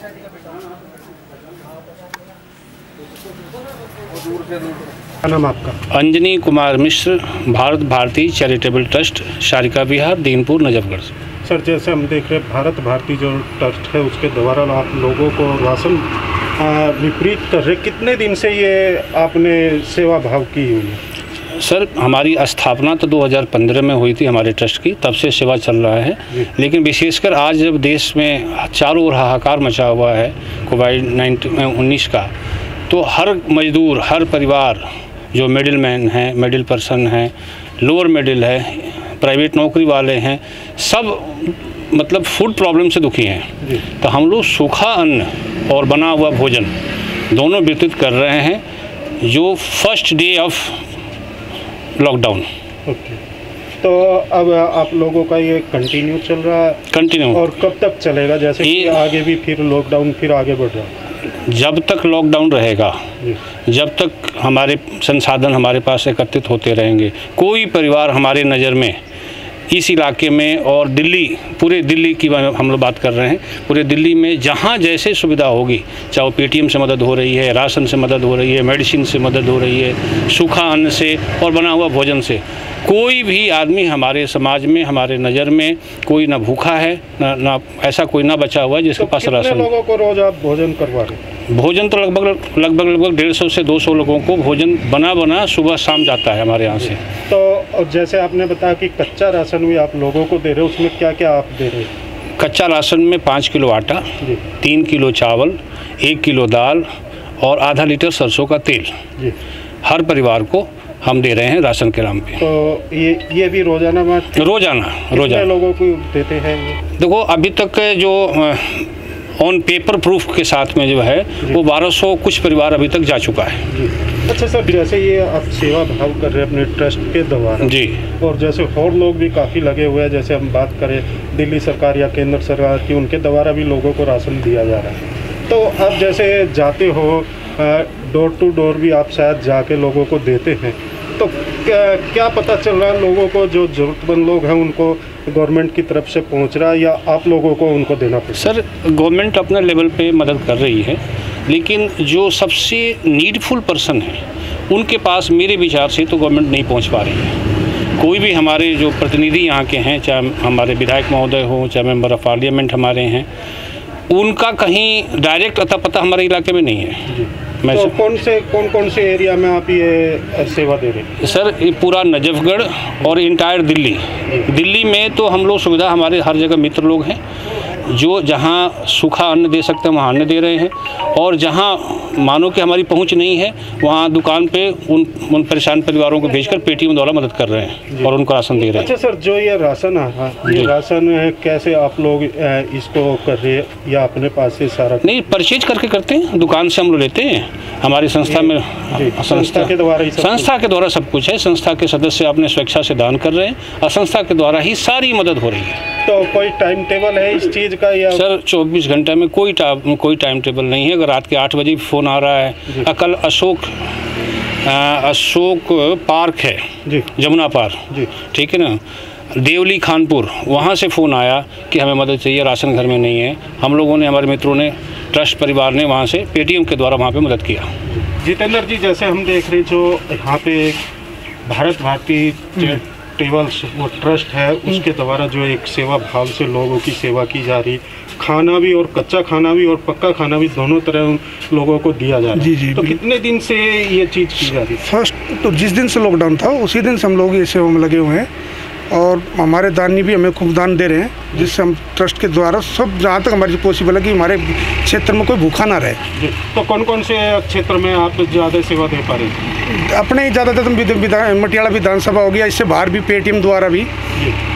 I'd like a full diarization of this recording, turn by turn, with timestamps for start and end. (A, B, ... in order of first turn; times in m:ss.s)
0:05.2-0:05.8 A
0:05.9-0:11.1 B
0:11.4-0:21.0 A
0:21.5-0:32.3 B
0:32.9-0:46.7 B
0:47.3-0:48.6 B
0:49.2-0:50.8 B
0:52.0-0:52.4 B
0:52.8-0:53.2 A
0:53.8-0:56.8 A
0:56.9-0:57.4 B
0:57.3-1:00.9 A
0:58.6-0:59.0 B
1:01.2-1:03.0 B
1:03.7-1:09.0 B
1:09.7-1:29.7 B
1:29.0-1:31.2 A
1:31.5-1:37.0 B
1:36.7-1:41.9 A
1:42.4-1:44.1 B
1:44.6-1:46.9 B
1:47.4-1:48.9 B
1:49.8-1:52.4 B
1:52.4-1:54.5 A
1:54.3-1:55.4 B
1:55.1-1:56.8 A
1:57.0-2:03.6 B
2:03.7-2:28.5 A
2:07.6-2:08.0 B
2:28.4-2:37.4 B
2:38.0-2:43.3 B
2:44.1-2:47.1 B
2:47.1-2:51.1 A
2:47.6-2:47.9 B
2:51.2-2:57.2 B
2:57.8-3:08.9 B
3:08.6-3:15.0 A
3:15.0-3:25.8 B
3:18.2-3:20.5 A
3:26.0-3:28.2 A
3:28.1-3:33.8 B
3:34.6-3:36.6 B
3:37.2-3:38.8 B
3:39.3-3:47.7 B
3:47.9-3:50.8 A
3:51.4-4:04.8 A
4:02.4-4:02.9 C
4:04.8-4:08.3 C
4:08.9-4:16.0 C
4:16.2-4:19.5 A
4:19.6-4:23.9 C